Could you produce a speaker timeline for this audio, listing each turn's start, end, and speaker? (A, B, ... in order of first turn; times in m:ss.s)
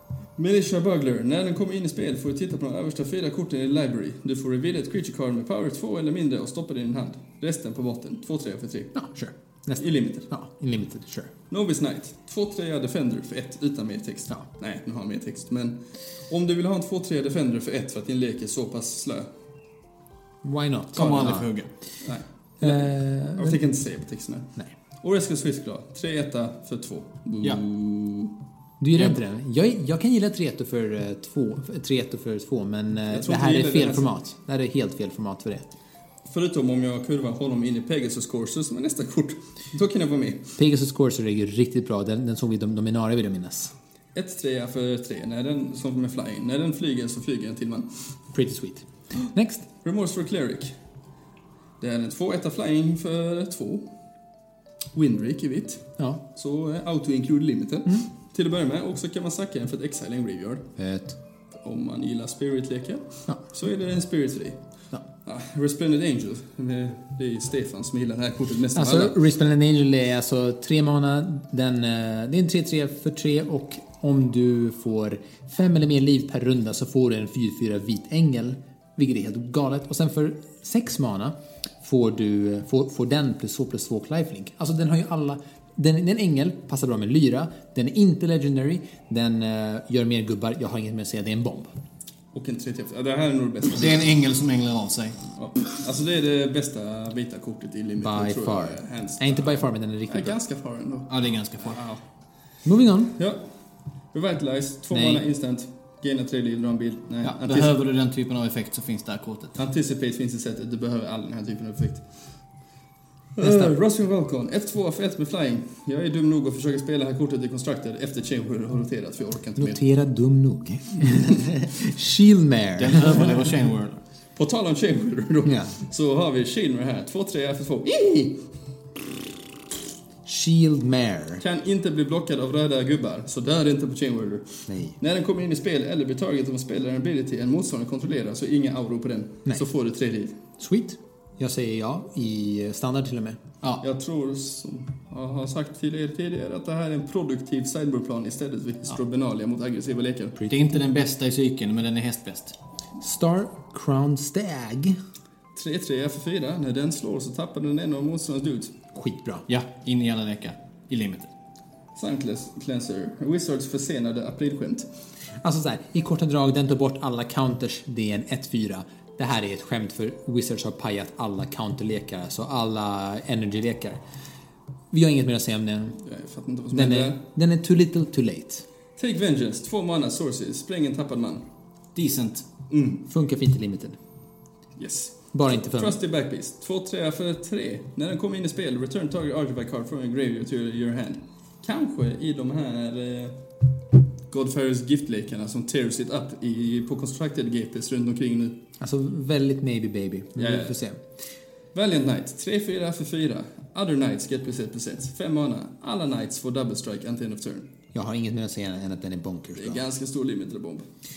0:00.4-0:08.9 A
0:08.9-0:11.3 B
0:09.8-0:10.3 A
0:11.5-0:15.8 A
0:16.3-0:19.3 A
0:20.4-0:21.5 B
0:20.9-0:21.7 C
0:21.0-0:21.4 A
0:22.0-0:24.5 A
0:22.6-0:23.6 B
0:25.0-0:28.3 A
0:28.8-0:35.7 B
0:33.1-0:34.1 A
0:36.3-0:40.5 A
0:40.6-0:43.7 B
0:44.1-0:47.9 A
0:48.3-0:49.6 B
0:49.8-0:50.7 A
0:51.8-0:53.8 A
0:54.9-1:00.6 A
1:00.8-1:01.2 B
1:01.6-1:04.6 A
1:05.2-1:09.2 A
1:08.7-1:31.7 B
1:32.3-1:34.1 A
1:33.7-1:35.2 C
1:35.3-1:42.0 A
1:38.0-1:40.4 B
1:41.1-1:41.8 C
1:42.6-1:43.1 B
1:43.2-1:43.4 A
1:44.1-1:47.8 A
1:44.9-1:45.2 B
1:47.4-1:49.6 C
1:49.6-1:52.0 A
1:53.4-1:59.8 A
1:53.4-1:53.7 B
1:59.6-2:03.3 B
2:02.8-2:04.0 C
2:04.4-2:08.4 A
2:05.4-2:05.7 B
2:10.2-2:11.4 B
2:11.4-2:20.4 A
2:14.7-2:15.0 B
2:20.6-2:23.4 B
2:23.8-2:30.4 A
2:30.4-2:32.5 C
2:33.0-2:35.0 B
2:35.5-2:38.7 A
2:38.9-2:39.4 B
2:39.5-2:41.3 C
2:41.9-2:44.9 A
2:45.4-2:54.0 B
2:54.9-2:56.0 B
2:56.0-2:57.2 A
2:56.7-2:58.6 B
2:59.0-3:01.4 A
3:01.9-3:02.4 C
3:02.7-3:03.0 A
3:03.1-3:04.0 B
3:04.8-3:13.3 A
3:05.3-3:06.0 B
3:14.3-3:18.6 A
3:18.8-3:21.0 B
3:20.4-3:20.7 A
3:21.7-3:27.7 A
3:27.9-3:29.8 B
3:29.6-3:30.8 A